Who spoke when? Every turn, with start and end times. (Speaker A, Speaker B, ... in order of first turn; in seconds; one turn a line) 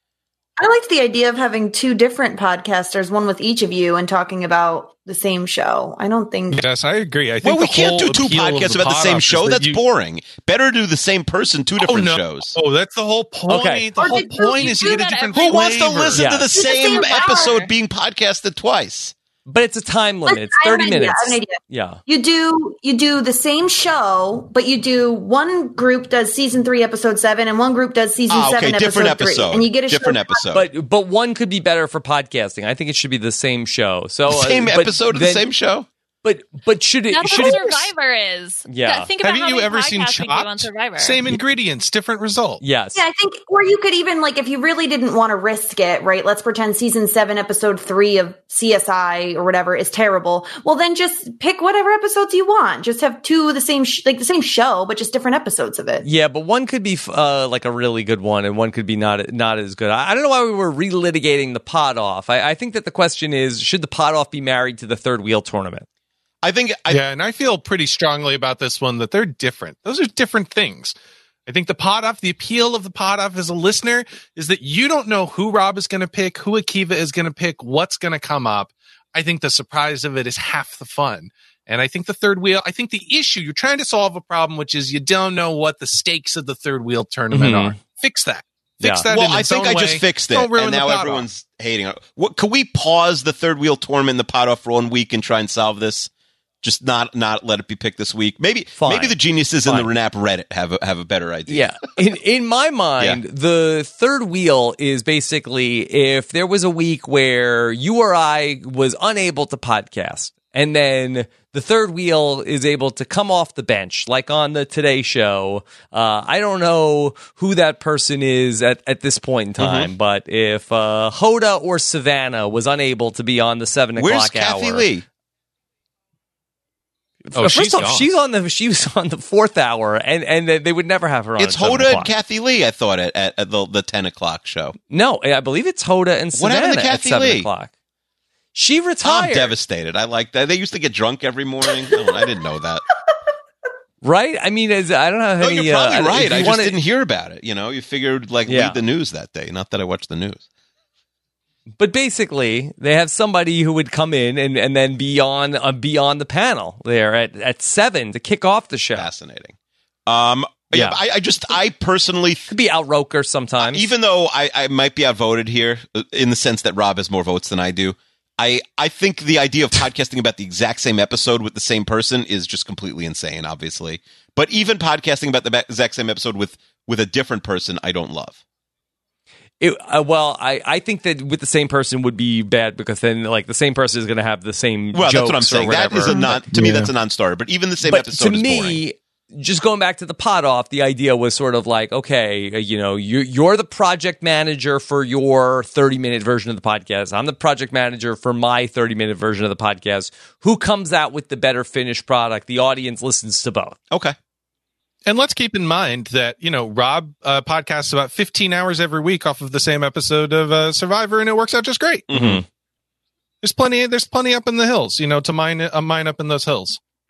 Speaker A: 0.6-6.6
Speaker B: 6.5-9.8
Speaker C: 7.4-12.5
Speaker B: 11.8-16.3
Speaker D: 13.5-13.9
Speaker A: 14.0-14.8
Speaker E: 14.0-15.7
Speaker C: 15.3-19.1
Speaker D: 16.1-16.5
Speaker A: 16.5-17.6
Speaker E: 16.8-17.6
Speaker D: 19.5-22.0
Speaker A: 20.3-30.4
Speaker C: 28.3-30.7
Speaker D: 30.5-35.5
Speaker C: 34.3-35.9
Speaker D: 36.2-37.6
Speaker E: 37.1-41.2
Speaker B: 37.3-37.8
Speaker D: 38.7-39.1
Speaker B: 39.2-42.6
Speaker D: 42.6-43.0
Speaker A: 43.0-56.1
Speaker D: 56.0-65.9
Speaker C: 66.4-67.0
Speaker B: 66.9-71.0
Speaker B: 71.5-91.3
Speaker D: 87.3-87.8
Speaker D: 88.8-89.1
Speaker C: 89.1-96.1
Speaker C: 96.6-101.7
Speaker D: 98.8-99.9
Speaker D: 101.5-124.9
Speaker C: 119.6-119.9
Speaker C: 124.0-125.0
Speaker D: 127.3-132.1
Speaker B: 127.3-128.1
Speaker C: 131.4-134.7
Speaker D: 134.9-137.7
Speaker C: 136.3-137.5
Speaker D: 138.5-139.6
Speaker C: 139.0-142.8
Speaker D: 144.0-146.8
Speaker C: 145.4-150.4
Speaker D: 148.5-148.8
Speaker D: 151.8-159.1
Speaker C: 158.9-159.6
Speaker C: 160.1-162.5
Speaker D: 160.7-161.0
Speaker D: 162.5-163.9
Speaker C: 163.6-178.4
Speaker D: 179.6-186.7
Speaker C: 184.9-188.8
Speaker B: 186.6-186.9
Speaker D: 187.8-203.8
Speaker C: 203.9-204.2
Speaker B: 205.1-212.1
Speaker C: 212.1-212.4
Speaker D: 212.1-212.4
Speaker B: 213.4-216.8